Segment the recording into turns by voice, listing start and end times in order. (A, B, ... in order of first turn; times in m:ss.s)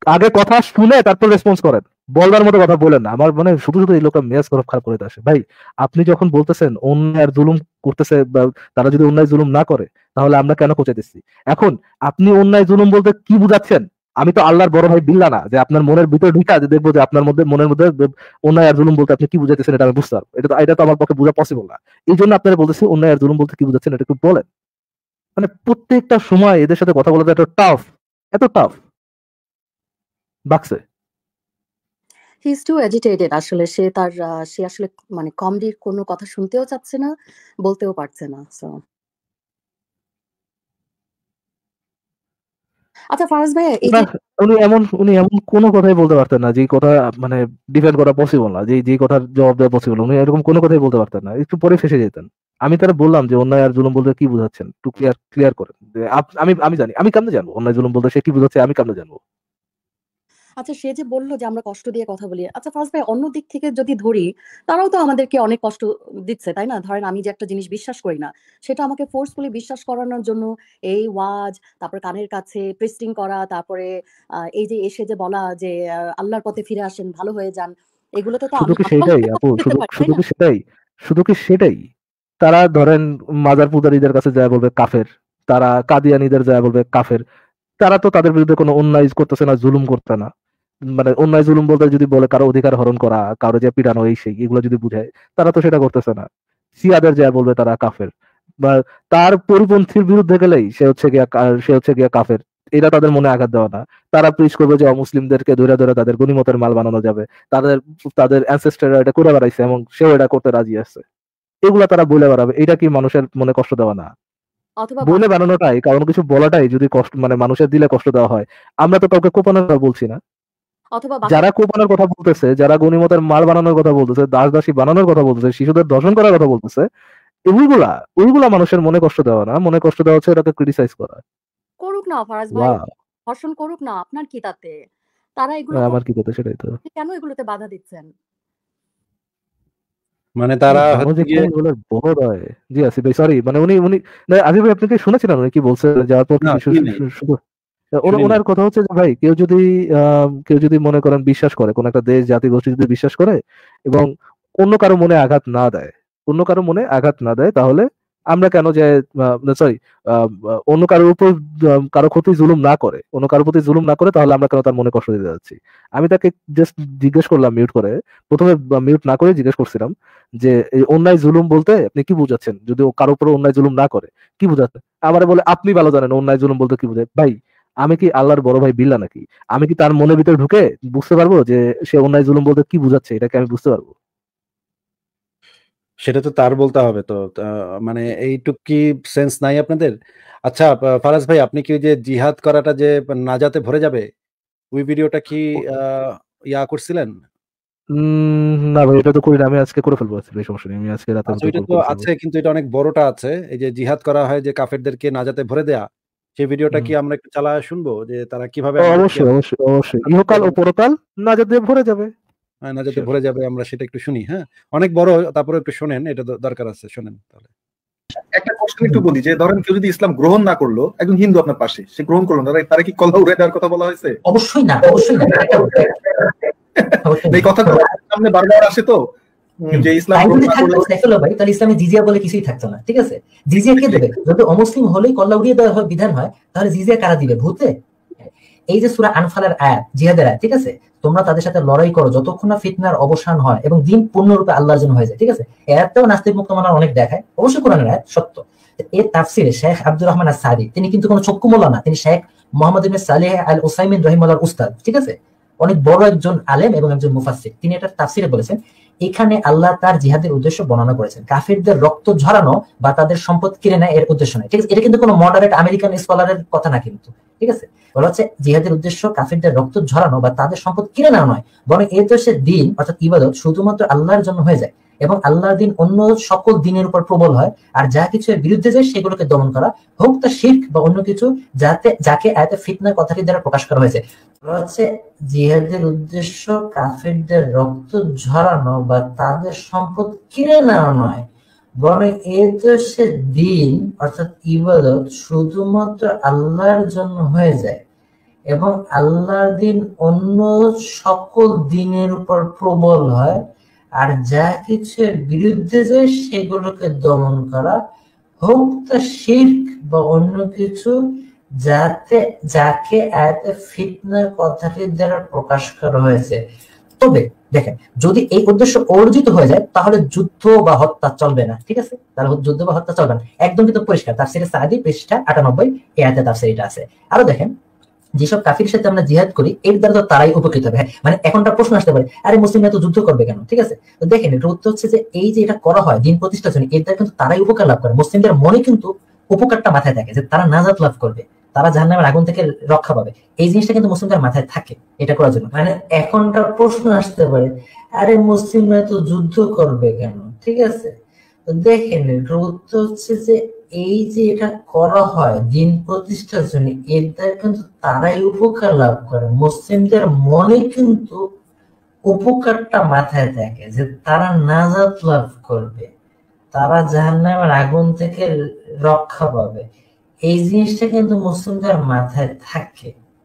0:00.1-0:24.4 A
0:25.4-0:28.8 A
0:30.5-0:30.8 A
0:32.4-0:37.1 B
0:37.6-0:38.7 B
0:43.1-0:44.0 B
0:43.8-0:59.2 A
1:00.6-1:13.9 B
1:14.6-1:20.2 B
1:18.6-1:21.8 A
1:22.4-1:27.2 A
1:27.8-1:30.3 A
1:31.0-1:36.2 A
1:36.8-1:38.1 A
1:38.6-1:51.0 A
1:51.6-1:54.1 A
1:54.8-1:55.2 B
1:55.0-2:00.2 A
2:00.9-2:01.4 B
2:01.3-2:06.8 A
2:07.5-2:11.2 A
2:11.8-2:14.8 B
2:12.5-2:12.8 A
2:15.4-2:16.0 B
2:15.8-2:16.7 A
2:16.8-2:18.1 B
2:20.4-2:21.5 C
2:20.7-2:27.3 A
2:26.4-2:27.0 C
2:28.0-2:34.1 A
2:28.1-2:28.4 C
2:34.6-2:38.9 A
2:39.4-3:03.9 A
3:06.0-3:09.9 C
3:10.5-3:14.0 C
3:14.7-3:17.1 C
3:18.0-3:22.1 A
3:21.3-3:29.3 C
3:28.8-3:32.1 A
3:30.0-3:30.5 C
3:32.6-3:37.5 C
3:38.3-3:44.2 D
3:44.3-3:45.8 E
3:46.8-3:49.0 D
3:47.0-3:47.8 E
3:49.6-3:50.9 D
3:49.8-3:57.7 E
3:53.7-3:54.1 D
3:58.7-4:08.4 E
4:09.0-4:51.2 E
4:51.8-4:57.8 E
4:58.5-5:03.4 E
5:04.0-5:07.8 E
5:08.4-5:10.9 E
5:11.6-5:16.4 E
5:17.0-5:27.5 E
5:28.2-5:50.9 E
5:51.5-6:01.2 E
6:02.1-6:05.9 E
6:06.5-6:08.3 E
6:08.8-6:09.6 E
6:10.3-6:12.9 E